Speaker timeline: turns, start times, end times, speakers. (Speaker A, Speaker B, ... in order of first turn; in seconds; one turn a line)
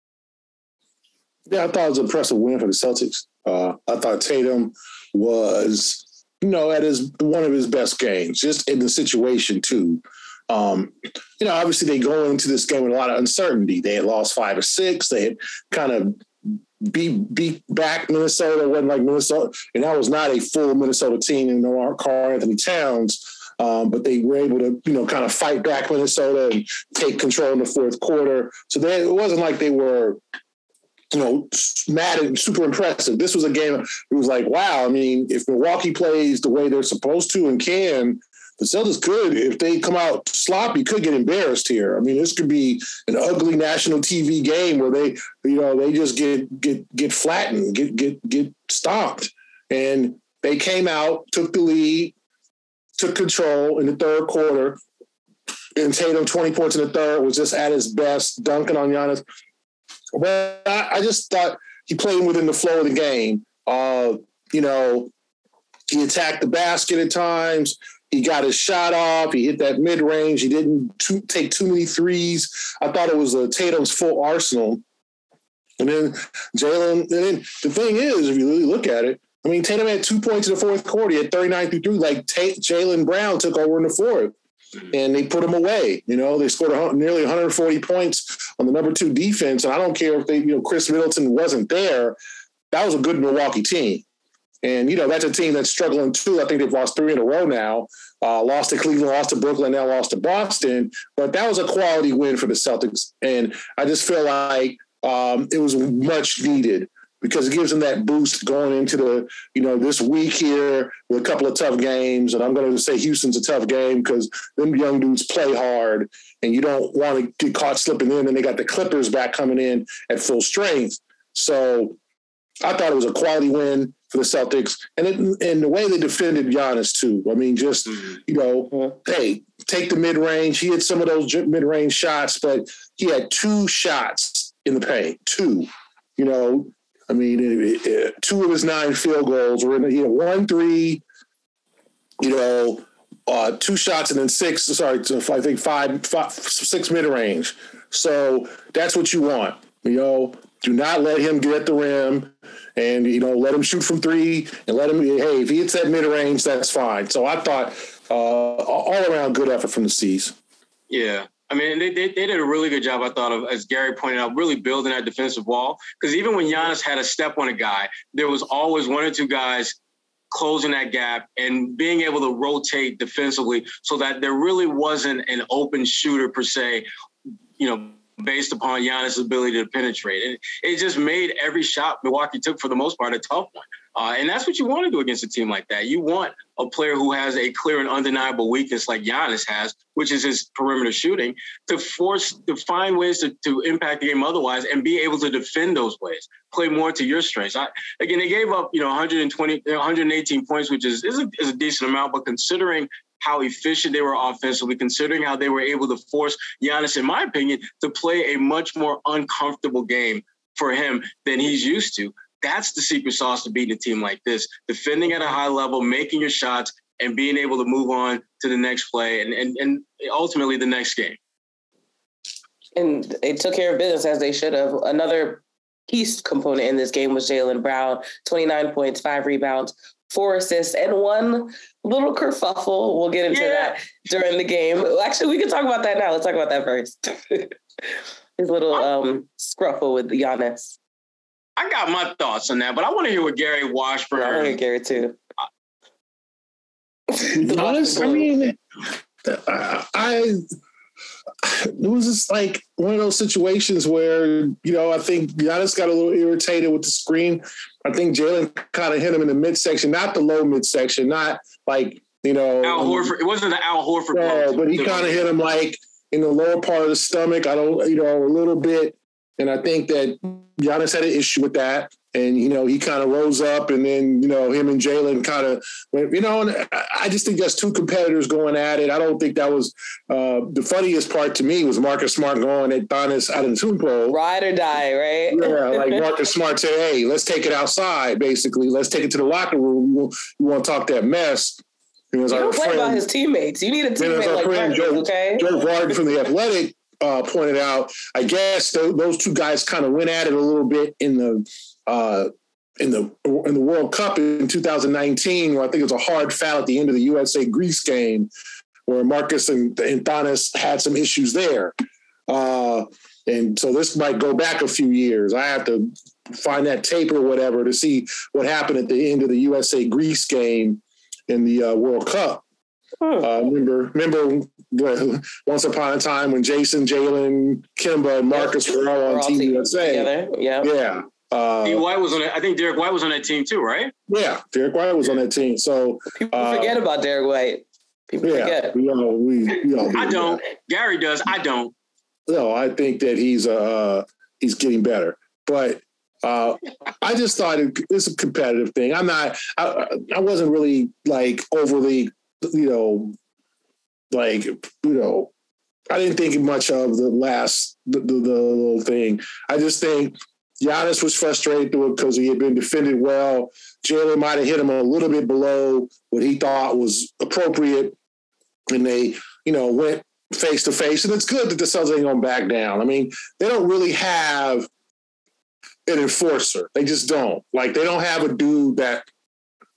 Speaker A: 1.5-30.2
Speaker A: 31.1-52.1
Speaker A: 53.0-54.8
Speaker A: 55.8-59.2
Speaker A: 60.1-65.1
Speaker A: 65.9-74.8
Speaker A: 75.8-84.3
Speaker A: 84.9-92.2
Speaker A: 92.7-94.0
Speaker A: 94.6-122.0
Speaker A: 122.6-141.0
Speaker A: 142.2-160.3
Speaker B: 160.9-169.8
Speaker B: 170.3-176.8
Speaker B: 177.6-221.2
Speaker C: 222.8-240.8
Speaker B: 233.3-233.8
Speaker B: 241.6-244.6
Speaker C: 244.2-245.2
Speaker C: 247.1-248.3
Speaker A: 247.3-250.4
Speaker A: 251.4-263.1
Speaker B: 262.6-265.3
Speaker A: 264.1-284.2
Speaker C: 284.1-286.0
Speaker A: 285.3-293.0
Speaker C: 292.3-295.5
Speaker A: 294.0-302.3
Speaker A: 302.8-308.3
Speaker A: 308.9-311.7
Speaker A: 312.3-322.4
Speaker C: 323.0-323.3
Speaker A: 323.2-330.1
Speaker C: 328.3-330.7
Speaker A: 330.6-331.8
Speaker B: 331.6-333.9
Speaker A: 334.1-336.8
Speaker C: 336.1-338.7
Speaker A: 338.2-340.4
Speaker B: 339.9-341.7
Speaker A: 342.3-353.1
Speaker A: 354.1-355.3
Speaker A: 355.9-367.9
Speaker A: 368.7-374.7
Speaker A: 375.9-379.1